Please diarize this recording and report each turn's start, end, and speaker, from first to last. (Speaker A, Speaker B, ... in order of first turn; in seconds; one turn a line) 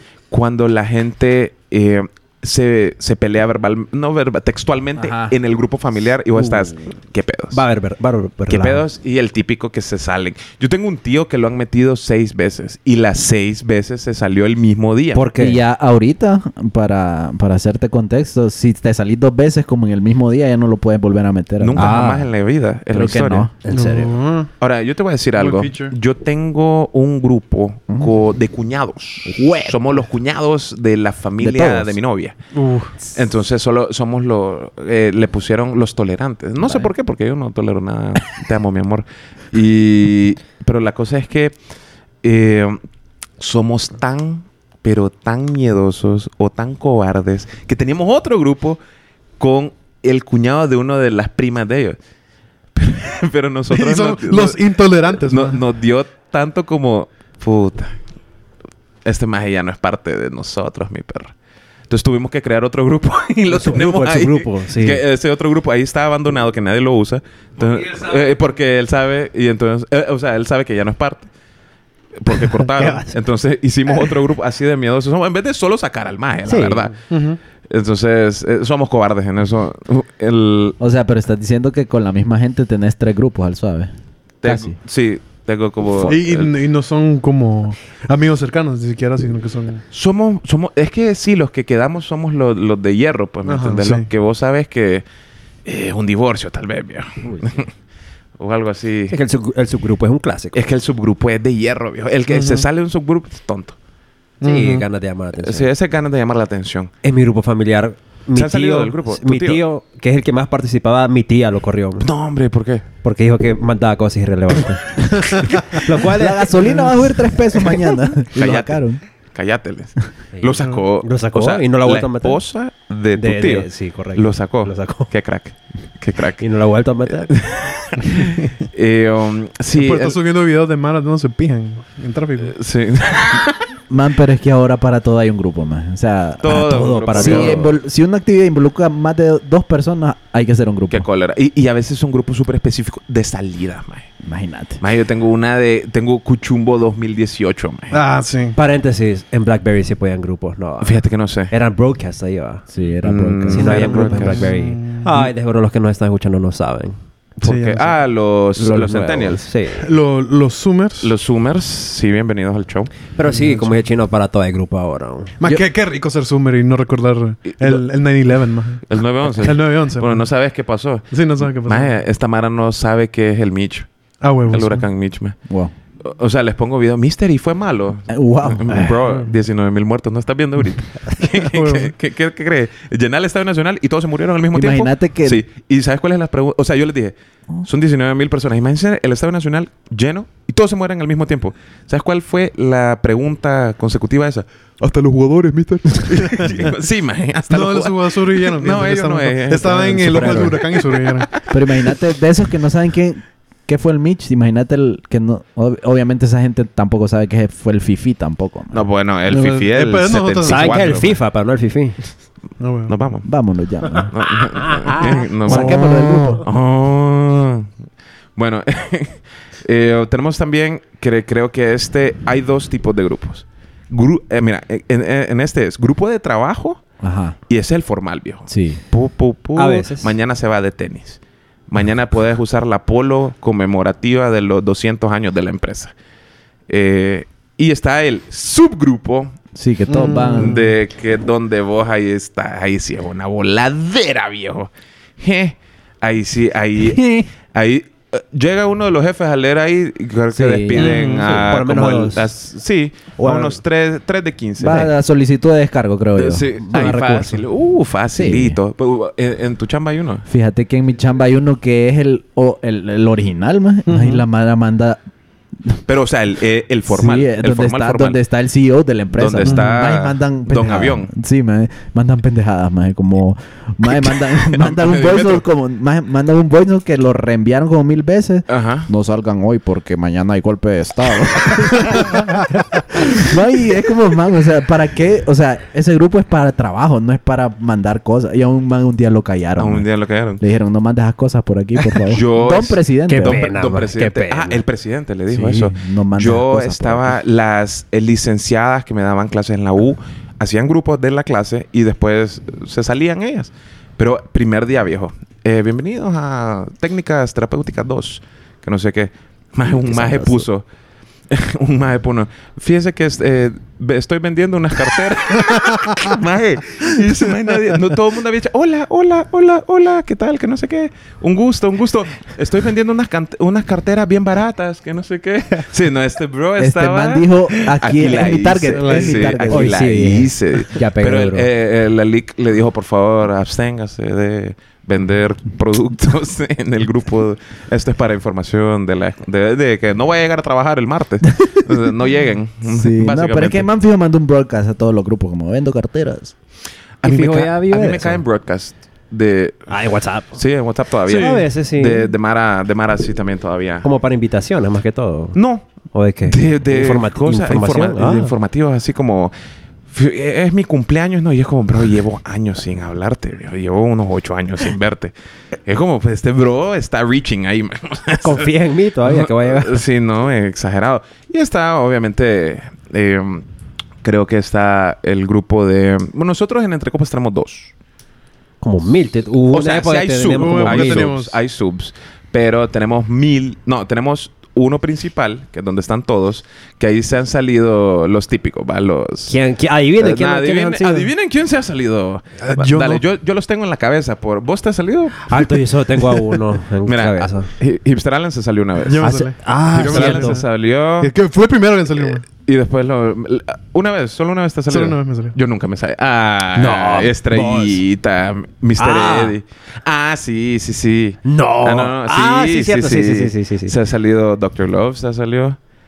Speaker A: 0.3-7.6
Speaker B: 5.0-5.3
Speaker C: 6.4-6.7
Speaker C: 7.5-8.8
Speaker A: 8.5-15.3
Speaker C: 15.1-15.6
Speaker B: 15.4-22.3
Speaker A: 21.6-23.5
Speaker B: 22.9-23.9
Speaker C: 23.7-24.1
Speaker D: 23.7-24.5
Speaker A: 24.6-32.3
Speaker D: 25.4-25.9
Speaker B: 29.3-29.8
Speaker B: 31.4-31.9
Speaker D: 32.5-33.0
Speaker A: 33.0-41.5
Speaker A: 42.2-42.8
Speaker A: 43.4-48.8
Speaker A: 49.4-52.0
Speaker A: 52.7-57.9
Speaker D: 53.7-55.6
Speaker A: 59.0-61.3
Speaker A: 61.9-71.3
Speaker C: 63.5-65.0
Speaker A: 72.2-77.0
Speaker C: 72.3-73.1
Speaker C: 76.5-76.9
Speaker D: 77.1-77.4
Speaker A: 77.7-80.8
Speaker B: 80.8-83.9
Speaker A: 84.4-86.5
Speaker B: 84.4-84.8
Speaker D: 86.0-89.8
Speaker A: 89.9-95.0
Speaker D: 93.4-94.1
Speaker A: 95.6-97.7
Speaker A: 98.4-99.1
Speaker C: 99.1-100.6
Speaker A: 100.5-103.8
Speaker D: 102.3-102.7
Speaker D: 104.4-104.8
Speaker C: 104.4-105.7
Speaker A: 105.4-106.9
Speaker C: 107.0-112.1
Speaker A: 108.3-109.6
Speaker A: 112.0-112.8
Speaker C: 113.0-116.8
Speaker D: 115.3-115.8
Speaker B: 116.0-119.0
Speaker A: 118.3-118.8
Speaker A: 119.3-126.4
Speaker C: 120.3-122.4
Speaker C: 123.1-125.1
Speaker C: 126.4-127.3
Speaker A: 127.2-130.2
Speaker D: 128.1-128.5
Speaker D: 129.7-132.6
Speaker A: 132.4-133.6
Speaker B: 133.9-141.1
Speaker A: 136.4-137.7
Speaker C: 136.4-137.7
Speaker A: 140.9-144.1
Speaker B: 144.2-144.8
Speaker A: 144.8-148.0
Speaker D: 147.9-148.6
Speaker C: 148.5-152.6
Speaker A: 150.8-151.5
Speaker B: 152.7-154.1
Speaker A: 153.0-154.5
Speaker C: 153.5-157.0
Speaker D: 153.7-155.1
Speaker A: 157.4-159.4
Speaker D: 157.4-157.9
Speaker C: 158.6-159.9
Speaker D: 159.8-161.1
Speaker A: 161.0-162.9
Speaker C: 163.1-165.3
Speaker D: 163.2-163.8
Speaker D: 165.4-168.8
Speaker A: 167.4-167.8
Speaker A: 168.8-173.9
Speaker D: 169.4-170.2
Speaker D: 171.1-171.9
Speaker D: 174.2-174.9
Speaker A: 174.5-175.3
Speaker B: 175.5-175.7
Speaker A: 176.0-201.2
Speaker B: 178.1-179.0
Speaker D: 179.0-179.3
Speaker D: 181.3-181.9
Speaker B: 184.5-185.4
Speaker D: 196.1-196.7
Speaker D: 197.5-201.3
Speaker B: 200.1-200.4
Speaker C: 200.1-200.5
Speaker B: 201.5-208.8
Speaker A: 208.7-211.2
Speaker D: 209.3-211.0
Speaker C: 210.4-212.0
Speaker D: 212.6-212.9
Speaker A: 212.9-213.3
Speaker B: 213.2-214.1
Speaker A: 214.1-217.7
Speaker C: 214.6-215.8
Speaker B: 215.4-216.4
Speaker A: 218.3-226.8
Speaker B: 227.0-227.4
Speaker A: 227.5-235.9
Speaker B: 228.5-228.8
Speaker C: 229.6-230.1
Speaker A: 236.7-239.3
Speaker B: 239.5-240.6
Speaker D: 239.9-240.7
Speaker A: 240.2-254.9
Speaker B: 250.3-251.0
Speaker D: 250.7-251.4
Speaker C: 251.2-252.3
Speaker C: 253.2-253.6
Speaker B: 254.6-256.5
Speaker A: 256.1-260.2
Speaker C: 256.6-257.4
Speaker B: 258.1-258.6
Speaker B: 260.3-265.0
Speaker D: 263.9-264.2
Speaker A: 265.9-268.2
Speaker B: 266.9-289.9
Speaker A: 269.1-271.1
Speaker D: 269.4-269.7
Speaker A: 274.0-275.4
Speaker A: 278.5-278.9
Speaker A: 289.6-290.4
Speaker B: 290.4-293.5
Speaker A: 292.1-310.6
Speaker C: 293.1-294.6
Speaker B: 295.3-297.1
Speaker B: 309.8-310.4
Speaker A: 311.3-343.7
Speaker B: 326.6-330.2
Speaker D: 328.7-329.4
Speaker C: 329.5-331.5
Speaker B: 342.6-346.3
Speaker A: 347.0-349.7
Speaker C: 347.0-348.2
Speaker C: 349.7-350.4
Speaker A: 350.3-353.9
Speaker C: 351.0-352.1
Speaker C: 353.8-355.4
Speaker A: 355.3-355.6
Speaker C: 355.9-358.3
Speaker A: 356.2-359.3
Speaker A: 359.9-365.1
Speaker A: 365.6-368.5
Speaker C: 368.2-369.8
Speaker A: 369.0-373.4
Speaker A: 374.0-377.7
Speaker C: 378.6-381.1
Speaker A: 379.5-389.4
Speaker D: 380.4-381.4
Speaker C: 389.3-391.1
Speaker A: 390.0-395.6
Speaker D: 392.4-393.0
Speaker C: 395.3-397.5
Speaker A: 396.8-399.1
Speaker D: 398.8-400.4
Speaker C: 399.0-400.4
Speaker A: 399.7-401.1
Speaker D: 401.0-402.2
Speaker A: 402.0-415.6
Speaker D: 404.7-405.3
Speaker C: 406.5-407.8
Speaker C: 408.8-409.4
Speaker C: 411.2-413.8